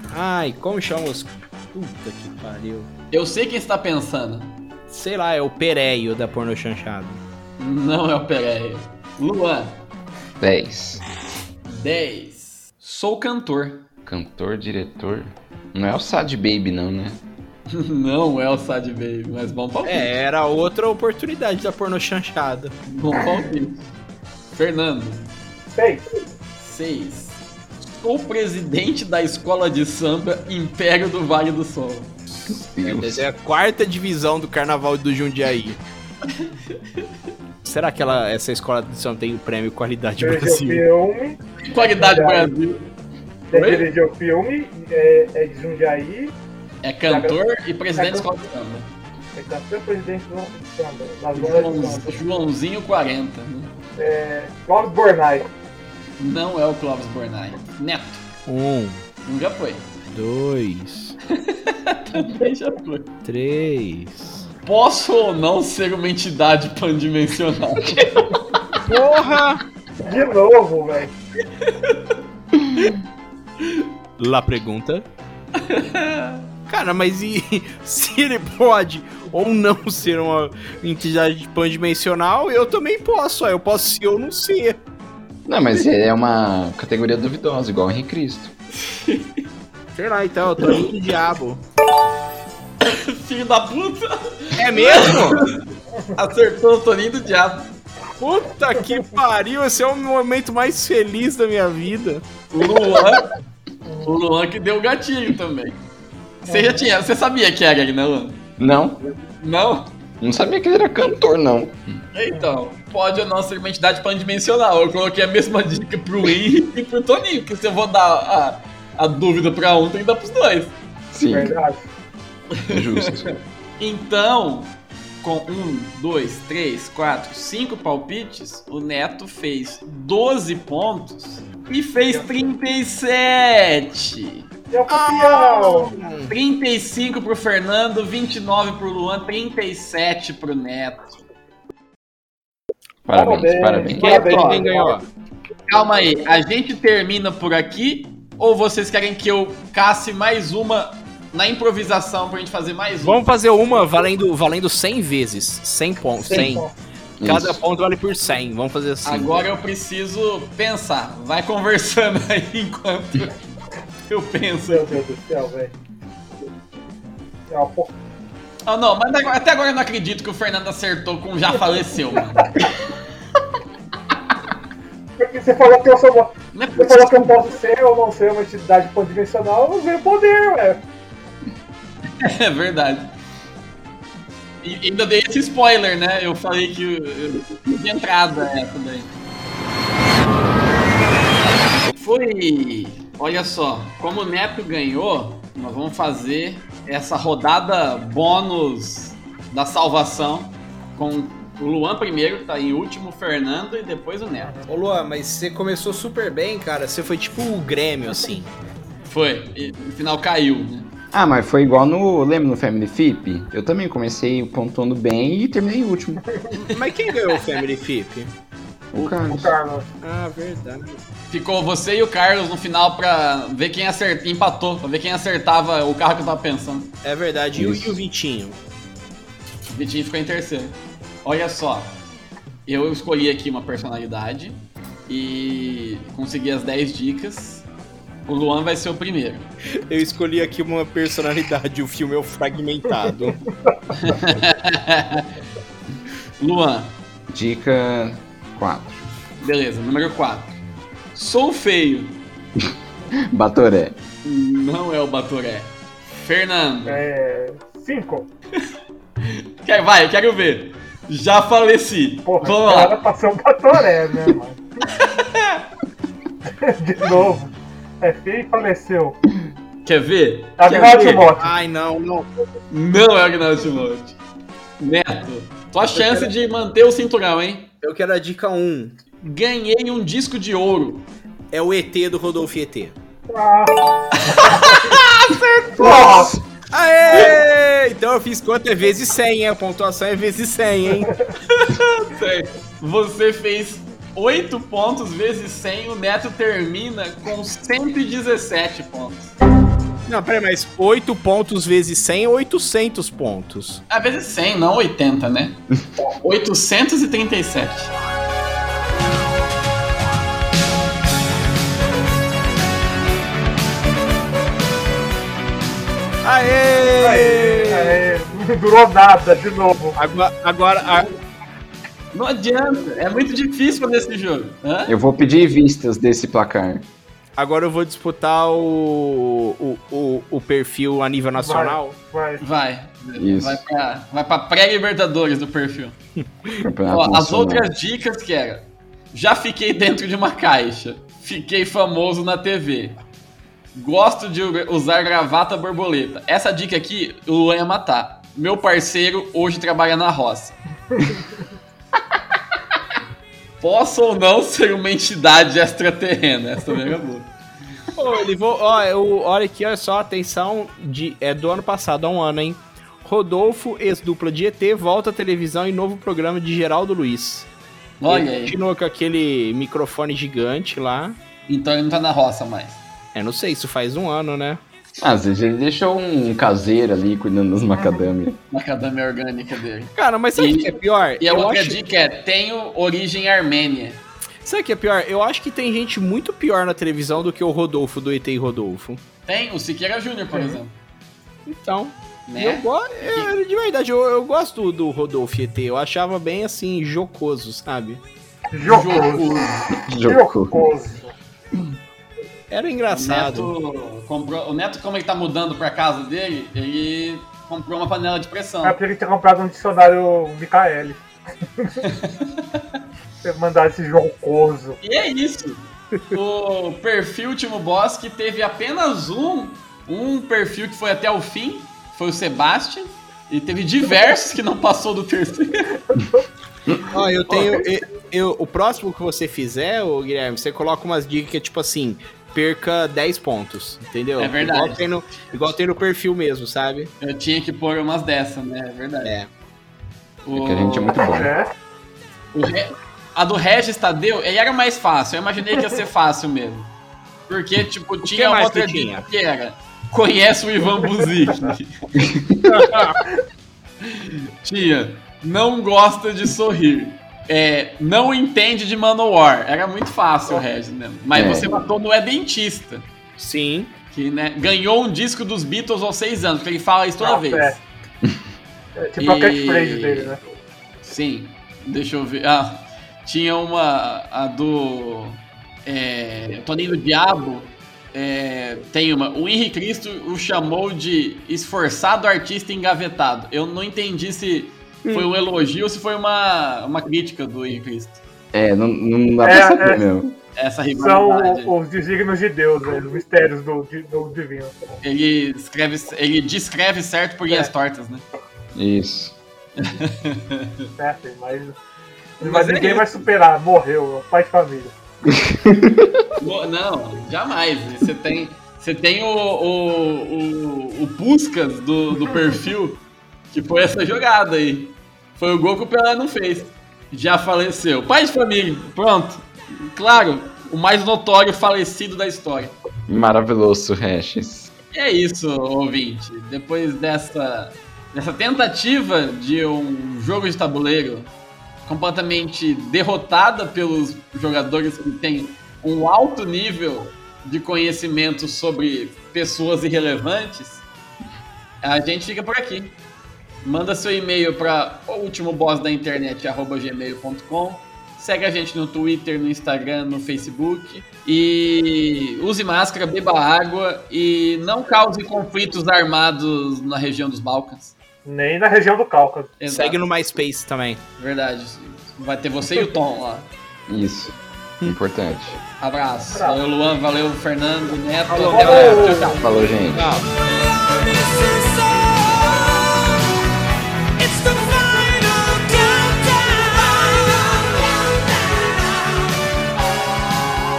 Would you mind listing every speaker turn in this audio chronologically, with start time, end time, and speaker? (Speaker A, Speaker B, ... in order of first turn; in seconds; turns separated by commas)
Speaker A: 0.1-2.9, Speaker B: 3.1-4.6, Speaker A: 4.9-7.2, Speaker B: 7.6-9.8, Speaker C: 10.4-11.0, Speaker B: 11.6-13.8, Speaker C: 14.1-17.2, Speaker B: 17.7-20.1, Speaker A: 19.8-22.7, Speaker B: 22.9-23.9, Speaker B: 24.5-25.3, Speaker D: 25.7-26.1, Speaker B: 26.6-32.1, Speaker C: 32.4-33.3, Speaker A: 32.8-35.8, Speaker A: 37.6-40.8, Speaker D: 40.2-41.4, Speaker B: 41.6-42.9, Speaker D: 41.9-42.5, Speaker B: 43.5-43.9, Speaker D: 43.5-46.4, Speaker B: 46.8-48.9, Speaker D: 47.1-47.4, Speaker D: 47.9-48.3, Speaker D: 49.3-52.1, Speaker B: 51.3-53.7, Speaker D: 54.0-55.5, Speaker B: 56.2-58.2, Speaker A: 58.5-59.0, Speaker B: 59.2-59.9, Speaker A: 60.1-61.2, Speaker B: 61.3-63.1, Speaker A: 63.2-64.5, Speaker B: 64.6-68.4, Speaker A: 68.8-69.6, Speaker D: 70.0-71.1, Speaker B: 71.6-72.1, Speaker B: 73.6-73.8, Speaker A: 74.2-75.0, Speaker B: 75.5-76.5, Speaker A: 76.7-84.8, Speaker C: 85.5-88.5, Speaker B: 88.8-89.4, Speaker A: 89.9-91.6, Speaker B: 92.8-95.5, Speaker A: 94.6-95.4, Speaker B: 96.1-97.7, Speaker A: 98.2-102.2, Speaker B: 102.5-103.3, Speaker D: 103.8-104.1, Speaker B: 104.0-105.8, Speaker B: 106.4-108.4, Speaker D: 106.5-106.9, Speaker C: 108.6-109.0, Speaker B: 109.4-109.9, Speaker C: 110.2-112.0, Speaker B: 112.1-120.8, Speaker C: 121.1-121.5, Speaker D: 121.3-121.9, Speaker B: 122.5-123.1, Speaker C: 122.7-123.3, Speaker B: 123.8-134.5, Speaker D: 132.1-132.5, Speaker D: 134.7-135.9, Speaker A: 134.9-136.3, Speaker B: 136.3-141.1, Speaker C: 143.0-144.6, Speaker D: 143.1-145.0, Speaker A: 143.9-145.1, Speaker B: 145.7-153.2, Speaker A: 153.0-156.7, Speaker D: 156.2-156.7, Speaker C: 157.2-157.6, Speaker A: 157.2-159.5, Speaker B: 159.0-163.3, Speaker B: 164.1-165.0, Speaker D: 164.6-165.7, Speaker D: 167.5-167.9, Speaker B: 168.7-172.5, Speaker D: 175.2-180.8, Speaker B: 176.5-177.4, Speaker B: 182.2-183.2, Speaker B: 184.6-189.1, Speaker B: 191.9-204.5, Speaker D: 204.4-204.7, Speaker A: 204.7-208.5, Speaker B: 209.1-210.9, Speaker C: 211.1-216.2, Speaker A: 216.7-218.3, Speaker C: 218.9-219.5, Speaker D: 219.0-219.8, Speaker A: 220.0-221.0, Speaker B: 221.3-226.9, Speaker A: 227.0-228.6, Speaker C: 227.5-228.0, Speaker B: 229.7-232.0, Speaker B: 232.7-237.7, Speaker B: 238.3-239.5, Speaker A: 239.9-243.4, Speaker B: 243.9-245.3, Speaker B: 246.4-246.9, Speaker C: 247.3-249.0, Speaker B: 249.4-250.6, Speaker B: 251.1-252.2, Speaker C: 253.3-254.0, Speaker B: 254.2-257.0, Speaker D: 256.8-258.3, Speaker B: 259.2-263.0, Speaker D: 262.2-264.9, Speaker B: 264.9-265.6, Speaker D: 266.6-269.2, Speaker B: 269.8-271.3, Speaker D: 270.6-271.5, Speaker A: 271.4-272.3, Speaker B: 272.7-274.2, Speaker B: 274.8-277.7, Speaker A: 275.9-276.3, Speaker A: 277.8-278.9, Speaker B: 279.2-281.1, Speaker A: 281.5-282.9, Speaker D: 283.3-283.7, Speaker B: 284.1-286.3, Speaker D: 284.3-284.9, Speaker D: 285.7-286.3, Speaker A: 286.0-291.1, Speaker B: 291.4-299.3, Speaker A: 300.1-303.8, Speaker B: 303.9-307.9, Speaker A: 316.2-318.0, Speaker D: 317.0-320.0, Speaker A: 319.9-321.1, Speaker B: 322.1-324.9, Speaker C: 324.9-326.9, Speaker A: 327.4-331.9, Speaker D: 331.4-332.4, Speaker B: 332.4-335.9, Speaker C: 333.2-333.6, Speaker A: 336.2-336.6, Speaker C: 336.6-337.7, Speaker B: 336.9-343.0, Speaker B: 343.7-350.6, Speaker B: 353.6-357.3, Speaker A: 357.9-367.5, Speaker B: 368.0-368.5, Speaker A: 368.1-371.2, Speaker B: 371.5-372.8, Speaker A: 373.1-374.6, Speaker C: 375.0-378.4, Speaker B: 378.5-384.0, Speaker A: 379.9-381.8, Speaker A: 384.4-389.0, Speaker B: 389.2-390.7, Speaker A: 391.5-398.0, Speaker B: 392.3-393.3, Speaker D: 398.5-399.3, Speaker B: 398.6-399.7, Speaker C: 399.8-400.5, Speaker D: 400.0-401.1, Speaker A: 402.5-403.5, Speaker B: 402.9-408.8, Speaker D: 408.6-411.0, Speaker D: 411.6-411.9, Speaker B: 411.8-412.6, Speaker D: 413.2-414.8, Speaker B: 414.8-425.8, Speaker A: 426.9-436.9, Speaker B: 427.3-427.6, Speaker B: 434.2-434.8, Speaker B: 437.0-439.1, Speaker B: 440.2-441.0, Speaker C: 440.3-441.3, Speaker D: 441.0-441.5, Speaker B: 442.3-446.7, Speaker B: 447.3-451.7, Speaker A: 448.0-449.1, Speaker C: 451.9-452.7, Speaker A: 452.5-453.0, Speaker B: 453.8-462.9, Speaker C: 461.1-461.5, Speaker A: 463.2-463.7, Speaker B: 463.9-467.6, Speaker D: 467.0-467.6, Speaker D: 468.8-470.2, Speaker B: 469.0-470.1, Speaker B: 470.8-488.0, Speaker C: 488.3-490.1, Speaker D: 489.2-489.9, Speaker B: 490.3-491.5, Speaker D: 490.8-494.6, Speaker B: 494.8-498.0, Speaker C: 498.5-499.1, Speaker B: 499.6-500.7, Speaker D: 500.8-501.6, Speaker D: 502.2-504.7, Speaker B: 502.2-503.0, Speaker C: 505.1-506.0, Speaker B: 506.2-522.5, Speaker C: 522.9-524.5, Speaker B: 524.7-531.1, Speaker B: 531.6-540.6, Speaker B: 541.6-542.7, Speaker B: 543.4-557.7, Speaker D: 558.0-559.3, Speaker B: 559.4-559.8, Speaker A: 559.5-560.8, Speaker B: 561.0-563.3, Speaker C: 563.7-565.4, Speaker B: 565.6-569.2, Speaker D: 566.1-566.4, Speaker A: 568.1-570.1, Speaker D: 568.3-569.2, Speaker C: 569.2-570.0, Speaker A: 570.6-572.9, Speaker A: 574.0-578.9